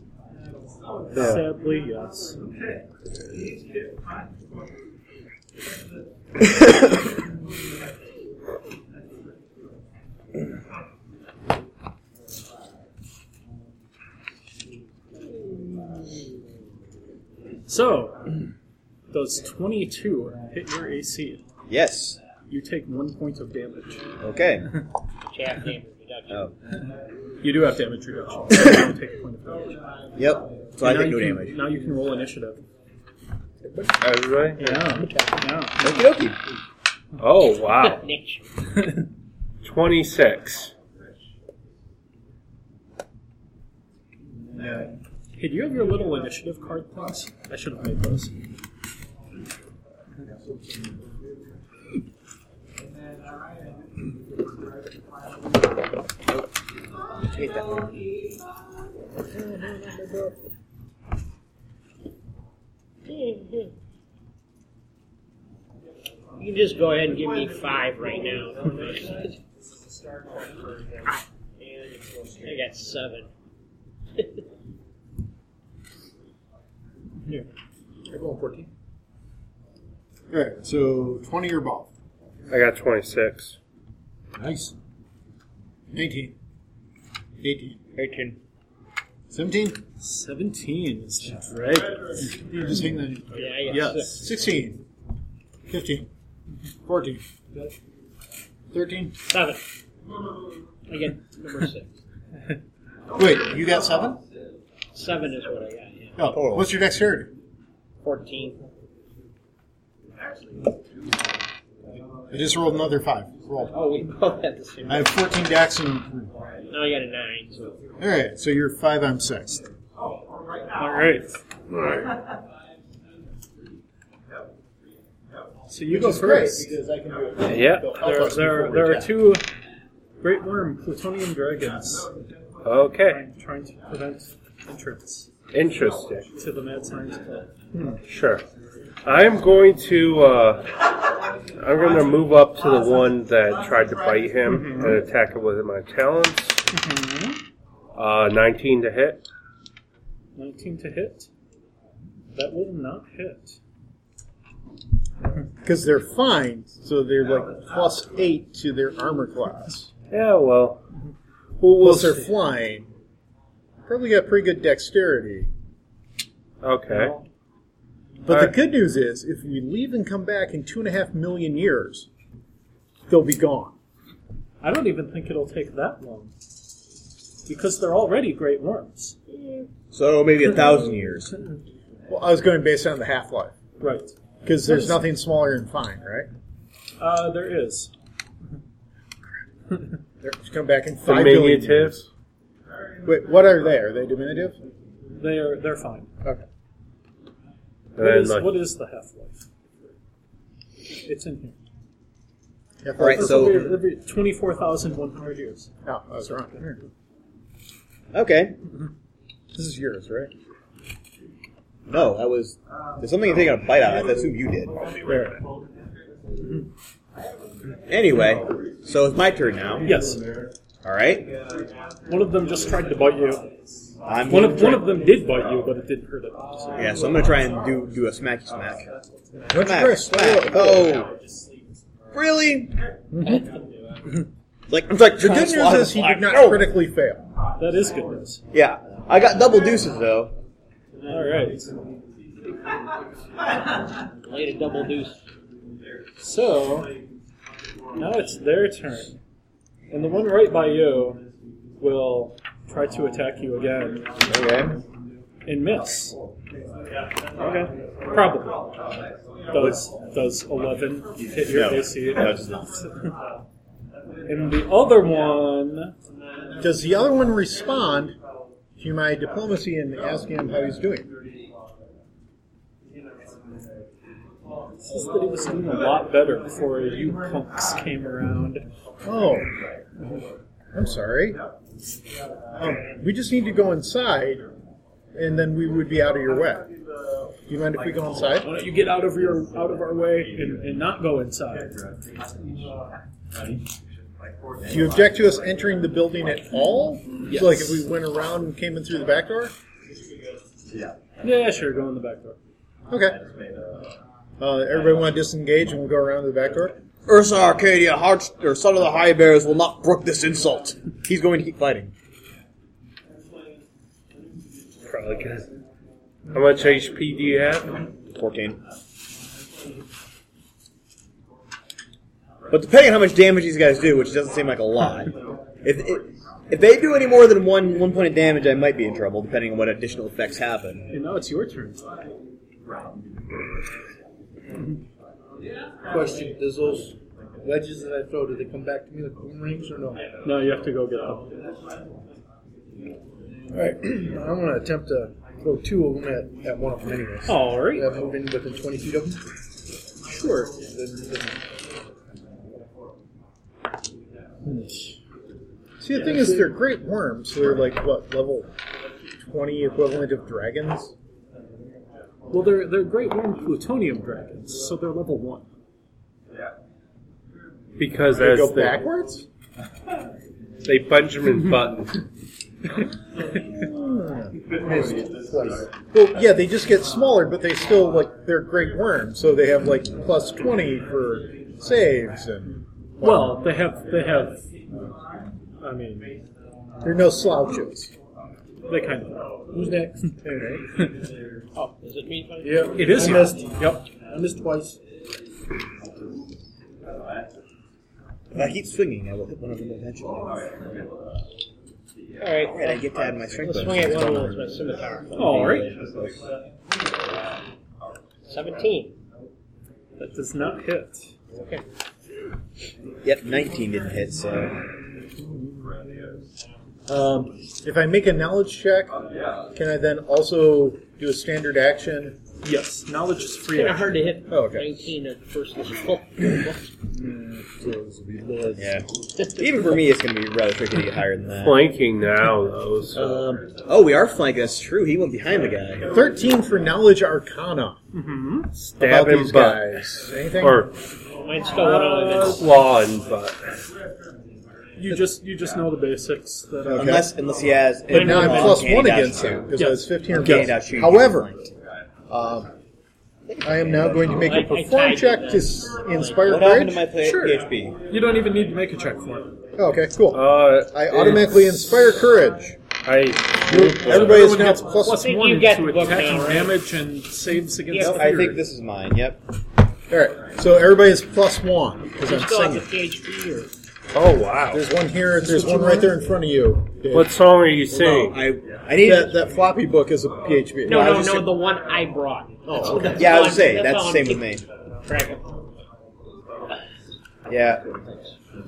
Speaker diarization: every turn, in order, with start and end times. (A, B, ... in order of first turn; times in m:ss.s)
0:01.1-0:02.5 A
0:01.1-0:01.4 B
0:17.7-0:18.3 A
0:19.1-0:21.4 A
0:21.7-0:22.2 C
0:22.5-0:24.0 A
0:24.2-0:24.7 C
0:25.3-0:26.4 D
0:27.4-0:29.8 A
0:30.2-0:31.6 C
0:30.8-0:32.6 A
0:34.0-0:34.7 B
0:34.6-0:36.1 A
0:35.8-0:36.4 C
0:37.2-0:38.0 B
0:37.8-0:38.4 D
0:39.6-0:40.7 B
0:45.4-0:48.4 A
0:57.3-0:58.0 C
0:59.9-1:00.3 E
1:03.1-1:03.7 D
1:06.4-1:09.4 D
1:12.4-1:13.3 D
1:18.1-1:18.6 F
1:20.3-1:21.9 E
1:22.5-1:23.6 B
1:24.4-1:24.7 F
1:25.9-1:26.4 E
1:27.4-1:27.8 E
1:28.0-1:28.4 C
1:29.3-1:29.8 E
1:30.0-1:32.4 A
1:32.4-1:33.6 E
1:33.3-1:34.3 D
1:33.6-1:34.2 A
1:34.1-1:34.8 E
1:35.7-1:36.1 E
1:36.9-1:37.2 E
1:38.7-1:39.2 E
1:39.3-1:39.6 D
1:40.9-1:41.9 D
1:43.1-1:44.2 E
1:44.9-1:46.1 D
1:46.2-1:47.3 E
1:46.3-1:46.6 C
1:48.0-1:48.6 D
1:52.3-1:53.7 E
1:53.7-1:55.1 D
1:54.9-1:56.3 E
1:56.7-1:57.7 D
1:58.0-1:59.6 E
2:00.7-2:01.4 A
2:05.7-2:06.7 A
2:05.9-2:09.2 E
2:07.5-2:07.9 B
2:08.0-2:09.4 A
2:10.2-2:12.1 A
2:12.6-2:13.2 B
2:13.1-2:15.3 A
2:15.5-2:16.3 B
2:16.4-2:17.4 A
2:18.0-2:18.4 B
2:19.0-2:20.7 B
2:21.6-2:26.6 B
2:24.4-2:25.0 A
2:26.7-2:27.4 A
2:28.0-2:29.2 B
2:30.4-2:31.3 A
2:32.4-2:33.6 A
2:35.6-2:39.9 E
2:40.1-2:40.8 B
2:41.6-2:42.9 E
2:43.9-2:45.5 E
2:46.6-2:47.2 B
2:46.9-2:47.2 A
2:48.2-2:52.1 E
2:53.1-2:53.7 E
2:54.6-2:56.3 A
2:57.5-2:59.2 A
2:59.9-3:01.3 C
3:02.1-3:03.5 E
3:03.8-3:04.1 A
3:04.4-3:06.3 E
3:04.6-3:05.0 A
3:07.0-3:07.9 A
3:10.2-3:12.1 E
3:11.0-3:12.0 B
3:13.0-3:14.6 E
3:15.2-3:16.1 A
3:18.0-3:18.5 B
3:18.0-3:19.4 A
3:21.0-3:21.6 A
3:22.8-3:23.6 E
3:23.0-3:23.7 C
3:23.0-3:25.7 A
3:25.8-3:26.8 E
3:28.1-3:28.5 C
3:29.5-3:30.3 E
3:31.9-3:34.8 C
3:35.1-3:35.4 E
3:37.9-3:39.9 C
3:39.8-3:40.2 A
3:40.8-3:41.3 C
3:42.1-3:43.5 A
3:44.1-3:44.9 C
3:44.3-3:47.2 A
3:46.8-3:48.8 C
3:49.5-3:50.9 E
3:49.5-3:51.1 C
3:52.1-3:52.7 C
3:53.1-3:53.4 E
3:54.7-3:56.7 C
3:55.2-3:57.3 E
3:57.6-3:58.4 A
3:58.5-4:00.3 C
4:01.1-4:01.7 A
4:04.2-4:05.2 D
4:06.2-4:06.9 A
4:08.0-4:09.1 A
4:09.9-4:11.2 A
4:11.8-4:14.1 A
4:14.3-4:14.8 C
4:15.5-4:16.2 A
4:17.4-4:17.7 C
4:18.1-4:18.7 A
4:19.5-4:22.5 A
4:21.5-4:22.6 C
4:24.2-4:25.9 A
4:26.6-4:28.2 E
4:28.8-4:31.1 E
4:34.8-4:38.6 A
4:39.0-4:39.5 E
4:40.7-4:41.4 E
4:42.6-4:44.4 E
4:45.2-4:46.6 E
4:47.5-4:48.5 E
4:48.4-4:51.7 A
4:54.6-4:59.5 E
5:01.2-5:02.4 A
5:02.9-5:03.2 E
5:04.4-5:06.8 E
5:07.1-5:11.9 C
5:14.8-5:15.5 B
5:16.3-5:17.8 B
5:18.2-5:18.6 C
5:22.5-5:30.8 C
5:30.9-5:31.8 A
5:35.9-5:40.0 F
5:40.2-5:41.3 A
5:43.5-5:49.2 F
5:47.2-5:47.9 A
5:50.1-5:50.6 A
5:50.5-5:51.4 F
5:55.8-5:58.5 E
5:56.0-5:56.4 F
5:59.2-6:00.9 E
6:02.3-6:05.5 A
6:07.8-6:08.8 B
6:08.2-6:09.2 E
6:10.6-6:12.0 B
6:13.6-6:14.3 E
6:14.6-6:15.7 F
6:15.9-6:23.4 E
6:23.0-6:24.4 A
6:25.6-6:26.2 A
6:26.8-6:27.9 E
6:28.7-6:29.3 A
6:29.5-6:30.1 F
6:30.2-6:30.6 E
6:31.6-6:33.2 D
6:32.4-6:34.8 F
6:32.8-6:33.9 A
6:38.3-6:40.3 C
6:42.2-6:42.8 D
6:42.5-6:44.4 C
6:43.4-6:45.5 D
6:45.2-6:46.2 C
6:45.2-6:45.7 A
6:48.3-6:48.9 D
6:50.0-6:51.1 A
6:51.3-6:51.6 D
6:53.0-6:54.6 C
6:56.9-6:58.9 E
6:59.5-7:02.2 E
7:02.4-7:04.0 A
7:03.5-7:06.7 D
7:04.3-7:04.7 E
7:07.0-7:08.8 E
7:08.6-7:11.6 C
7:11.4-7:13.0 B
7:12.9-7:13.4 E
7:13.6-7:15.8 C
7:15.9-7:17.8 E
7:17.9-7:18.5 A
7:18.5-7:19.7 B
7:18.8-7:20.6 E
7:20.4-7:20.8 B
7:21.2-7:22.5 D
7:21.6-7:22.5 A
7:22.2-7:23.4 B
7:24.8-7:27.1 A
7:26.6-7:27.1 E
7:26.8-7:29.5 C
7:27.9-7:31.3 E
7:27.9-7:28.7 D
7:29.6-7:30.5 A
7:30.1-7:31.4 C
7:32.1-7:32.5 E
7:33.3-7:34.2 C
7:33.4-7:36.8 E
7:34.2-7:36.2 D
7:36.2-7:37.8 C
7:37.0-7:39.3 A
7:39.6-7:42.6 E
7:40.1-7:41.8 B
7:42.8-7:44.2 B
7:43.5-7:45.1 E
7:43.6-7:48.4 A
7:44.9-7:46.5 D
7:47.7-7:48.1 D
7:47.8-7:49.2 C
7:49.9-7:52.6 E
7:52.0-7:53.5 D
7:53.9-7:54.6 B
7:54.5-7:57.1 E
7:56.9-7:58.2 B
7:57.7-7:59.2 C
7:58.8-8:00.9 E
8:00.6-8:04.2 D
8:00.7-8:01.3 C
8:02.5-8:03.3 E
8:03.0-8:04.4 C
8:04.8-8:05.2 D
8:07.3-8:08.0 C